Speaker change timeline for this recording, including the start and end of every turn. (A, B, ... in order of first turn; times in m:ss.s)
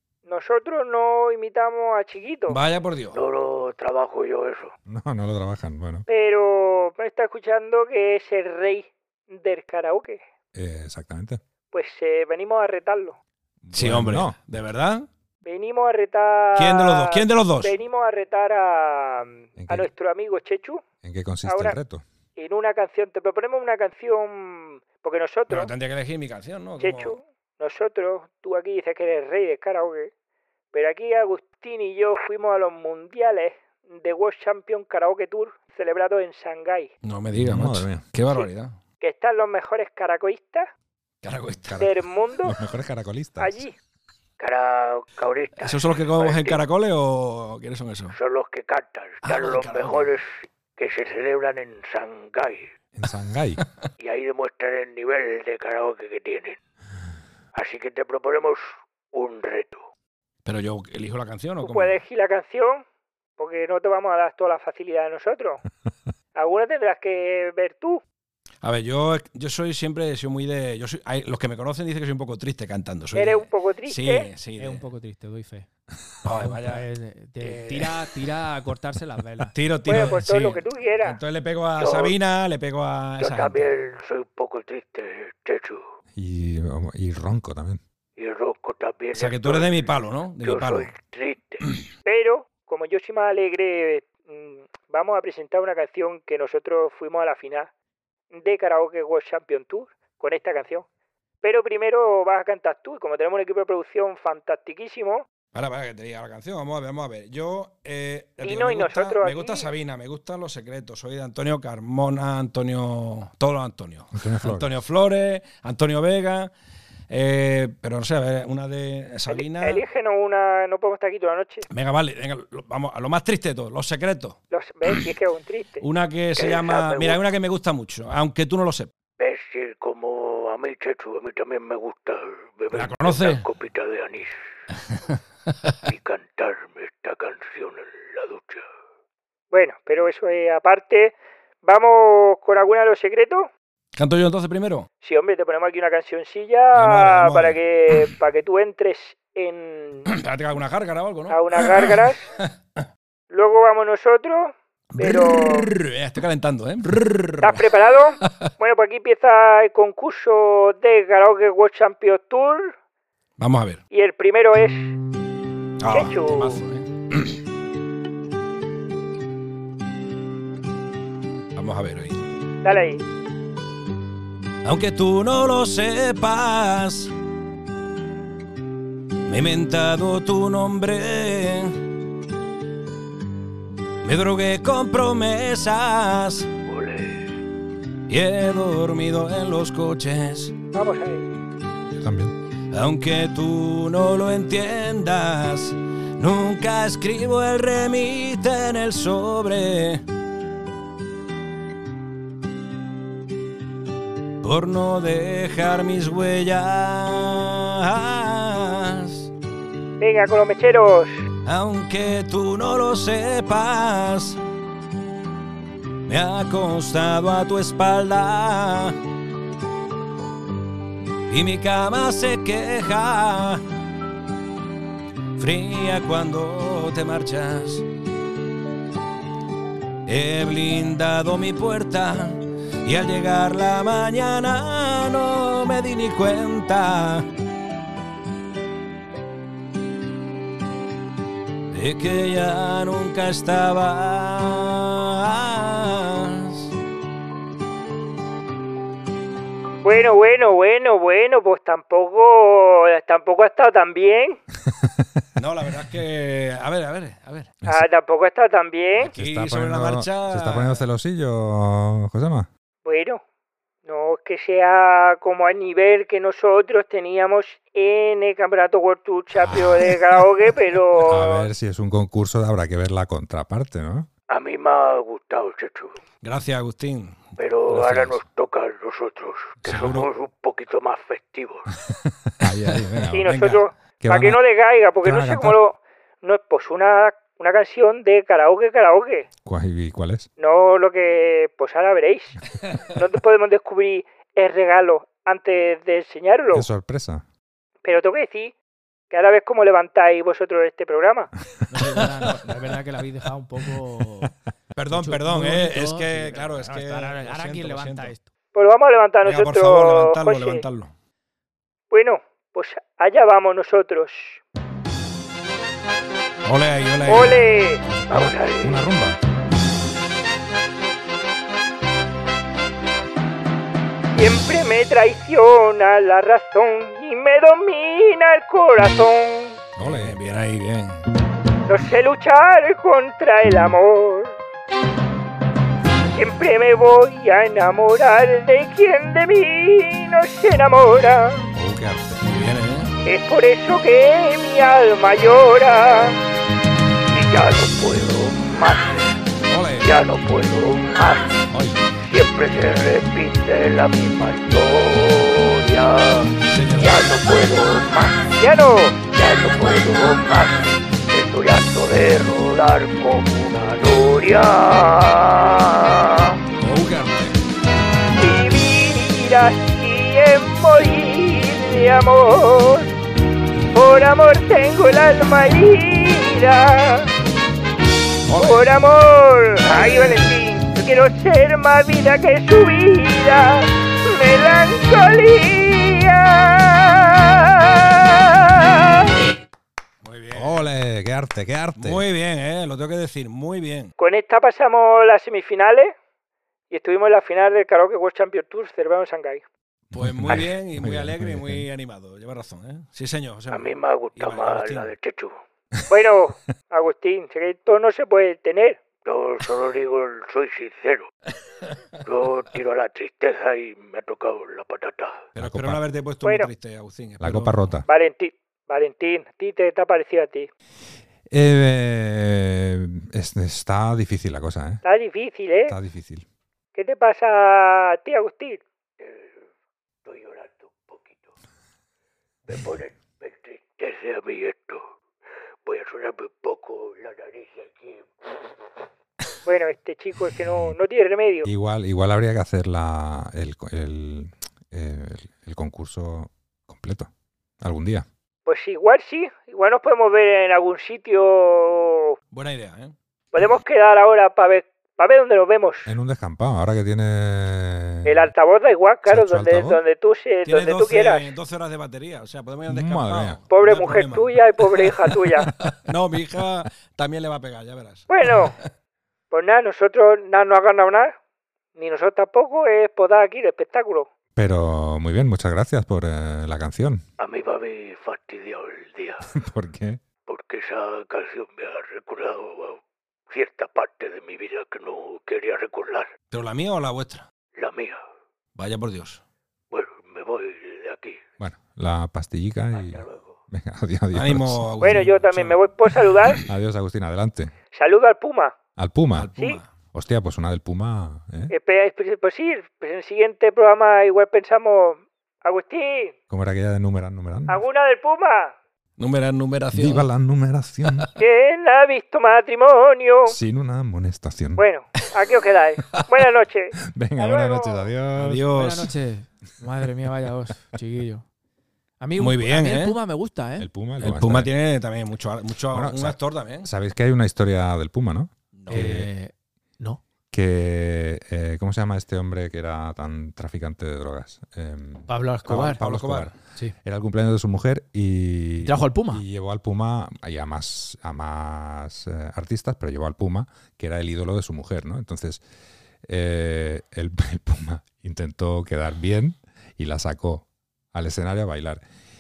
0:00.3-0:02.6 A
0:02.5-0:03.2 B
0:03.1-0:04.7 C
0:04.9-0:06.1 D
0:06.1-0:10.2 A
0:10.5-0:11.4 D
0:11.7-0:13.2 A
0:13.6-0:14.4 D
0:13.7-0:15.1 B
0:15.4-0:20.8 A
0:16.6-0:17.8 B
0:19.6-0:19.9 D
0:21.0-0:22.0 D
0:21.5-0:21.8 A
0:22.4-0:25.7 A
0:25.5-0:27.2 B
0:26.8-0:30.1 A
0:30.7-0:36.9 A
0:37.0-0:38.8 B
0:37.4-0:38.1 D
0:39.0-0:40.7 A
0:41.2-0:41.9 B
0:41.8-0:42.6 A
0:42.4-0:43.7 D
0:43.4-0:43.7 A
0:44.4-0:46.6 C
0:45.6-0:48.2 B
0:48.1-0:52.7 C
0:49.2-0:50.1 B
0:53.0-0:53.6 D
0:54.0-0:56.6 C
0:57.5-0:59.9 C
1:00.4-1:02.0 B
1:01.6-1:02.8 A
1:03.4-1:05.6 A
1:06.4-1:08.0 A
1:08.6-1:14.8 B
1:13.1-1:14.3 A
1:14.6-1:15.7 E
1:16.2-1:16.8 B
1:16.3-1:19.6 E
1:17.4-1:18.1 B
1:19.5-1:23.7 B
1:19.9-1:21.2 A
1:21.8-1:22.2 C
1:23.2-1:25.8 C
1:26.2-1:27.8 D
1:28.2-1:29.9 C
1:29.1-1:31.0 B
1:30.4-1:31.7 C
1:32.0-1:37.7 A
1:38.3-1:40.9 A
1:41.4-1:45.2 A
1:45.5-1:56.5 B
1:48.4-1:49.7 A
1:54.1-1:54.7 D
1:57.1-1:59.8 B
1:59.3-2:01.7 A
2:01.7-2:04.4 B
2:04.5-2:05.8 A
2:05.8-2:08.9 B
2:06.4-2:07.2 C
2:09.2-2:14.3 C
2:12.7-2:13.4 B
2:15.8-2:18.6 C
2:19.5-2:23.5 A
2:24.0-2:24.9 B
2:25.0-2:30.1 A
2:26.7-2:28.1 B
2:30.1-2:32.5 B
2:31.3-2:32.3 A
2:33.3-2:35.7 A
2:34.9-2:37.7 B
2:37.4-2:42.8 A
2:38.2-2:38.5 B
2:43.4-2:43.8 B
2:43.9-2:44.9 A
2:45.8-2:47.4 B
2:45.9-2:46.6 A
2:51.6-2:52.2 B
2:52.6-2:53.0 A
2:54.6-2:57.1 B
2:59.3-3:01.8 B
3:04.0-3:06.5 B
3:06.7-3:07.4 C
3:08.1-3:10.6 B
3:10.7-3:11.4 A
3:12.0-3:12.4 D
3:12.7-3:20.0 B
3:24.4-3:29.3 B
3:30.0-3:31.3 A
3:31.4-3:34.4 B
3:36.1-3:39.0 B
3:41.3-3:43.6 B
3:45.4-3:47.9 B
3:50.1-3:57.3 B
4:01.7-4:06.7 B
4:09.8-4:14.4 A
4:15.4-4:17.6 B
4:17.6-4:19.1 A
4:19.0-4:22.5 D
4:19.2-4:20.8 B
4:22.8-4:23.2 A
4:23.8-4:31.5 A
4:31.0-4:34.1 D
4:34.3-4:36.0 C
4:36.2-4:38.2 B
4:37.4-4:41.8 C
4:39.6-4:40.1 B
4:42.4-4:43.4 D
4:42.4-4:43.6 B
4:43.1-4:49.3 A
4:44.0-4:44.4 D
4:45.0-4:45.6 D
4:49.4-4:50.3 D
4:50.4-4:52.4 A
4:53.0-4:56.7 A
4:56.5-4:57.2 D
4:57.8-4:58.5 A
4:59.1-5:01.3 A
5:01.7-5:04.3 E
5:01.8-5:02.5 B
5:04.8-5:08.1 B
5:04.9-5:08.3 E
5:08.5-5:10.6 A
5:09.2-5:10.9 B
5:11.9-5:14.4 A
5:16.5-5:17.4 B
5:17.1-5:17.8 A
5:18.1-5:19.2 D
5:18.1-5:18.8 C
5:24.1-5:29.6 A
5:29.8-5:30.2 D
5:29.8-5:31.0 B
5:31.7-5:34.4 A
5:36.1-5:41.5 A
5:41.5-5:42.3 D
5:42.2-5:42.9 B
5:43.1-5:46.2 A
5:47.1-5:49.2 C
5:49.5-5:50.0 B
5:49.8-5:51.4 C
5:51.5-5:51.8 D
5:52.0-5:58.3 C
5:56.5-5:57.1 B
5:58.4-5:59.0 A
5:59.1-6:06.4 C
6:06.6-6:07.4 B
6:08.2-6:12.9 A
6:13.7-6:17.1 A
6:18.3-6:18.6 B
6:18.4-6:29.2 A
6:19.7-6:20.3 B
6:30.0-6:30.7 B
6:30.3-6:32.0 D
6:31.8-6:33.9 B
6:34.0-6:36.0 A
6:36.7-6:39.4 A
6:39.9-6:41.7 D
6:39.9-6:44.9 B
6:43.5-6:45.4 C
6:45.9-6:48.9 A
6:49.0-6:51.1 C
6:52.0-6:55.3 C
6:55.4-6:57.6 B
6:55.4-6:55.8 D
6:56.2-6:56.5 A
6:57.2-6:57.9 D
6:57.9-7:00.5 A
7:01.3-7:04.8 D
7:04.8-7:05.8 A
7:05.7-7:06.2 D
7:06.8-7:08.6 A
7:09.0-7:09.4 C
7:10.0-7:11.3 C
7:12.5-7:14.9 C
7:15.6-7:18.4 C
7:19.5-7:21.5 A
7:21.4-7:28.1 D
7:28.5-7:32.2 A
7:32.3-7:32.9 B
7:33.3-7:35.9 A
7:35.9-7:38.3 D
7:38.0-7:41.3 A
7:39.1-7:39.8 D
7:40.5-7:48.6 B
7:42.7-7:43.4 D
7:43.5-7:45.5 A
7:48.1-7:48.6 A
7:49.3-7:51.2 A
7:51.8-7:54.1 A
7:54.4-7:57.0 D
7:57.2-7:59.3 C
7:59.3-8:00.0 D
8:00.3-8:06.1 C
8:06.3-8:07.3 B
8:07.6-8:08.0 C
8:08.6-8:09.2 B
8:09.7-8:11.2 C
8:11.4-8:14.7 D
8:12.8-8:13.4 C
8:14.1-8:16.4 B
8:14.8-8:16.4 A
8:16.4-8:17.5 D
8:17.7-8:18.6 A
8:18.8-8:19.3 D
8:19.1-8:19.6 B
8:19.4-8:19.6 A
8:19.9-8:21.5 D
8:21.5-8:26.2 A
8:26.3-8:27.6 D
8:27.5-8:28.6 A
8:29.0-8:30.1 B
8:29.7-8:31.1 D
8:30.9-8:31.1 B
8:31.2-8:33.4 A
8:33.3-8:34.6 D
8:34.6-8:37.9 A
8:35.9-8:36.2 B
8:36.8-8:38.4 D
8:38.2-8:38.9 B
8:38.5-8:41.2 E
8:42.0-8:43.7 E
8:42.2-8:43.0 B
8:43.6-8:44.5 D
8:44.0-8:46.7 B
8:45.7-8:49.1 D
8:48.5-8:48.9 B
8:48.7-8:50.0 E
8:50.3-9:05.4 D
8:55.1-8:55.8 E
8:55.5-8:56.4 B
8:58.6-8:59.2 E
9:06.0-9:11.8 D